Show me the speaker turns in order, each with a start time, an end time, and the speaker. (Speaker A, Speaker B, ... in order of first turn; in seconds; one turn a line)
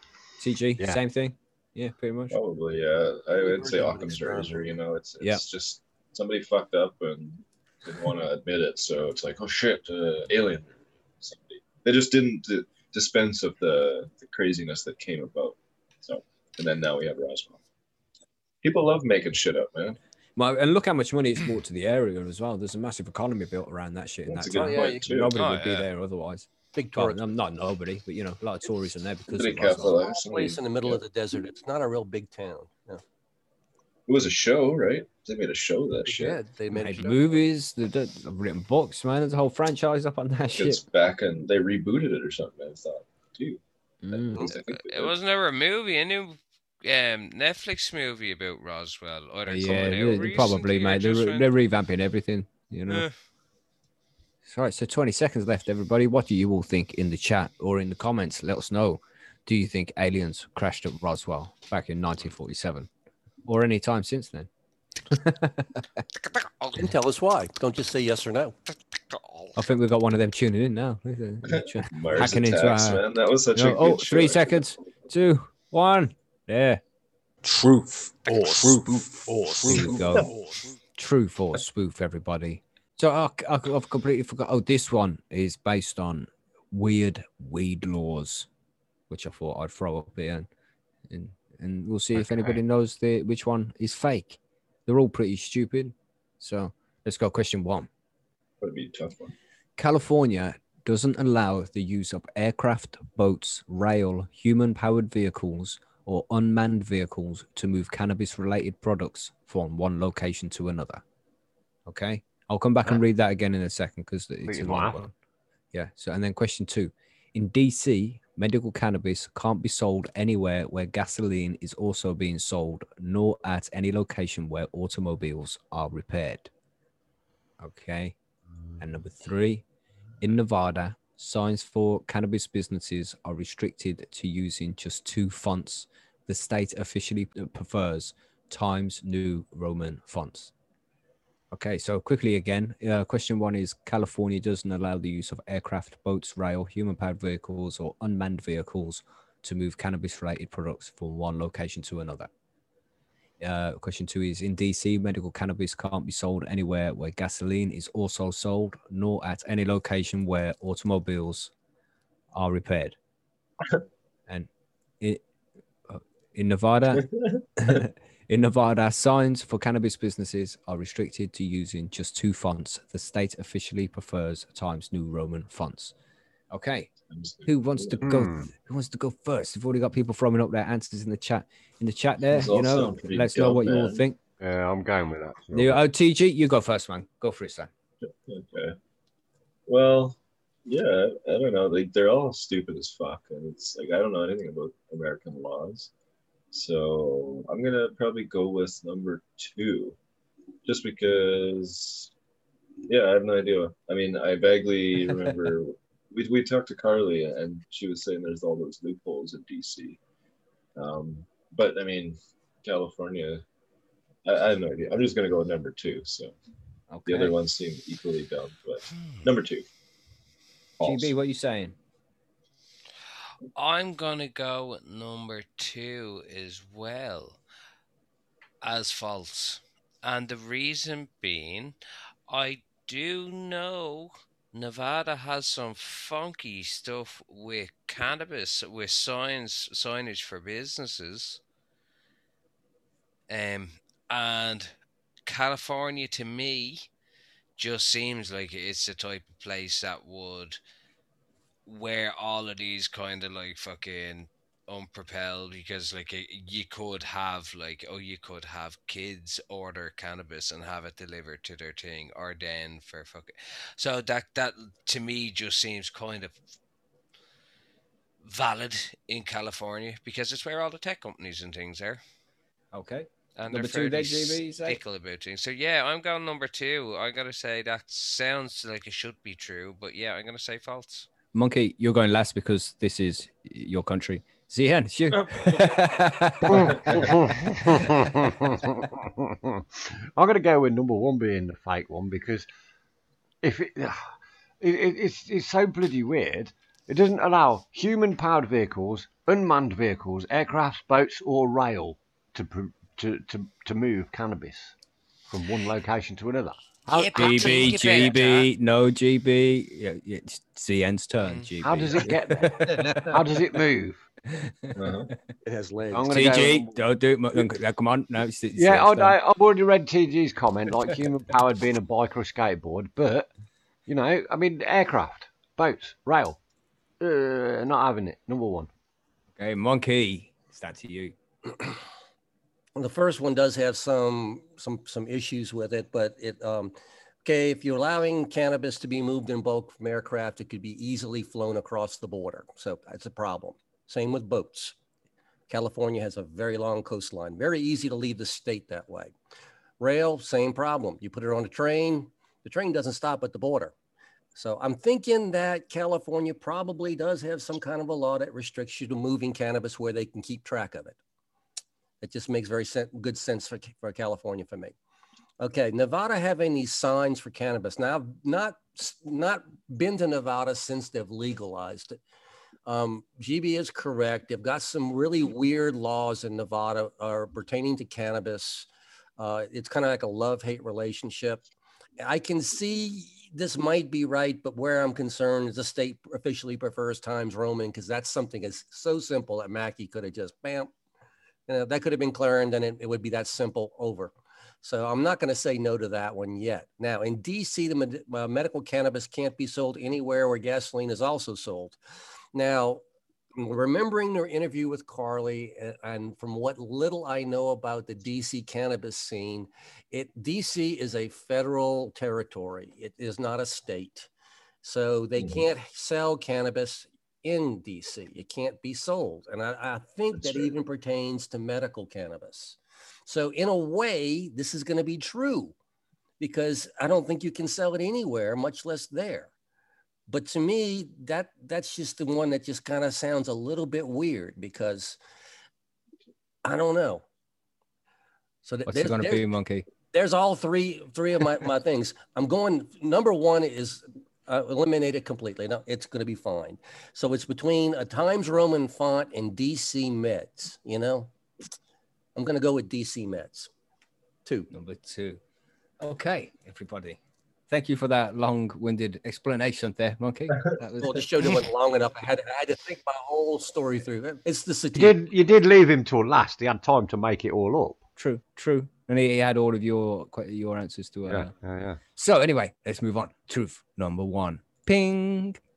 Speaker A: 0.4-2.4
Speaker B: 2.3-17.6
Speaker C: 3.4-4.7
Speaker B: 18.6-20.0
Speaker A: 20.4-30.0
Speaker B: 24.3-25.4
Speaker C: 24.5-25.1
Speaker D: 25.4-25.9
Speaker C: 26.8-27.3
Speaker B: 29.3-31.0
Speaker C: 30.0-33.0
Speaker B: 34.1-36.4
Speaker C: 36.1-37.4
Speaker A: 36.7-40.8
Speaker B: 40.6-45.1
Speaker A: 44.0-44.5
Speaker D: 44.5-51.5
Speaker A: 49.5-53.1
Speaker D: 52.9-53.1
Speaker A: 54.4-62.9
Speaker A: 63.5-64.5
Speaker A: 65.1-66.0
Speaker D: 66.3-66.8
Speaker C: 66.8-68.6
Speaker D: 69.1-69.6
Speaker A: 69.6-76.8
Speaker B: 71.5-74.7
Speaker E: 77.5-80.4
Speaker A: 78.4-80.3
Speaker B: 79.7-80.3
Speaker A: 81.0-88.5
Speaker A: 89.1-90.5
Speaker A: 91.1-97.9
Speaker B: 92.2-92.6
Speaker B: 98.6-99.3
Speaker A: 99.8-111.0
Speaker A: 111.9-115.1
Speaker F: 114.5-115.1
Speaker A: 115.7-126.5
Speaker A: 127.6-128.2
Speaker A: 128.8-129.7
Speaker A: 130.2-140.5
Speaker A: 141.5-152.3
Speaker A: 153.4-161.5
Speaker A: 162.3-163.0
Speaker A: 165.9-167.1
Speaker B: 166.9-167.4
Speaker A: 167.6-175.9
Speaker A: 176.5-176.9
Speaker B: 177.1-178.2
Speaker A: 177.5-184.2
Speaker F: 178.0-178.5
Speaker B: 182.3-184.0
Speaker F: 184.4-185.8
Speaker A: 185.5-187.7
Speaker B: 188.0-188.8
Speaker B: 189.7-195.9
Speaker B: 196.5-200.0
Speaker B: 200.7-202.1
Speaker B: 202.9-210.0
Speaker B: 210.8-213.4
Speaker B: 214.3-216.3
Speaker A: 216.9-217.3
Speaker B: 217.1-219.7
Speaker B: 220.8-221.1
Speaker A: 220.8-221.8
Speaker D: 223.6-227.4
Speaker D: 228.6-231.8
Speaker D: 232.3-241.4
Speaker D: 243.3-244.7
Speaker D: 245.3-246.9
Speaker D: 247.6-250.6
Speaker D: 251.7-266.4
Speaker D: 268.2-272.0
Speaker A: 272.7-274.8
Speaker D: 273.4-281.1
Speaker A: 281.3-287.0
Speaker F: 286.5-292.5
Speaker F: 293.4-304.7
Speaker F: 305.3-308.1
Speaker D: 306.9-308.5
Speaker A: 307.1-313.1
Speaker D: 311.2-311.5
Speaker F: 311.6-314.0
Speaker C: 312.7-313.2
Speaker A: 314.3-314.8
Speaker B: 314.8-315.1
Speaker C: 315.4-316.3
Speaker F: 315.9-316.8
Speaker A: 316.1-319.2
Speaker F: 318.6-323.3
Speaker F: 323.9-326.4
Speaker F: 327.0-328.7
Speaker A: 329.4-331.1
Speaker C: 332.8-344.8
Speaker C: 345.5-349.1
Speaker C: 349.8-353.7
Speaker C: 354.4-361.0
Speaker C: 362.0-364.8
Speaker C: 365.4-372.0
Speaker C: 372.7-381.4
Speaker C: 382.0-390.7
Speaker C: 391.5-401.8
Speaker C: 402.3-402.8
Speaker C: 403.4-414.1
Speaker C: 414.6-425.6
Speaker B: 415.2-415.4
Speaker B: 420.1-420.5
Speaker C: 426.2-429.3
Speaker C: 430.1-435.0
Speaker C: 436.4-437.0
Speaker C: 438.4-439.3
Speaker A: 438.7-439.7
Speaker C: 439.9-451.1
Speaker C: 452.2-453.5
Speaker C: 454.3-454.5
Speaker A: 454.5-455.2
Speaker A: 455.8-461.4
Speaker C: 460.8-465.0
Speaker F: 464.8-467.8
Speaker A: 468.0-471.3
Speaker F: 471.1-471.8
Speaker A: 472.0-475.4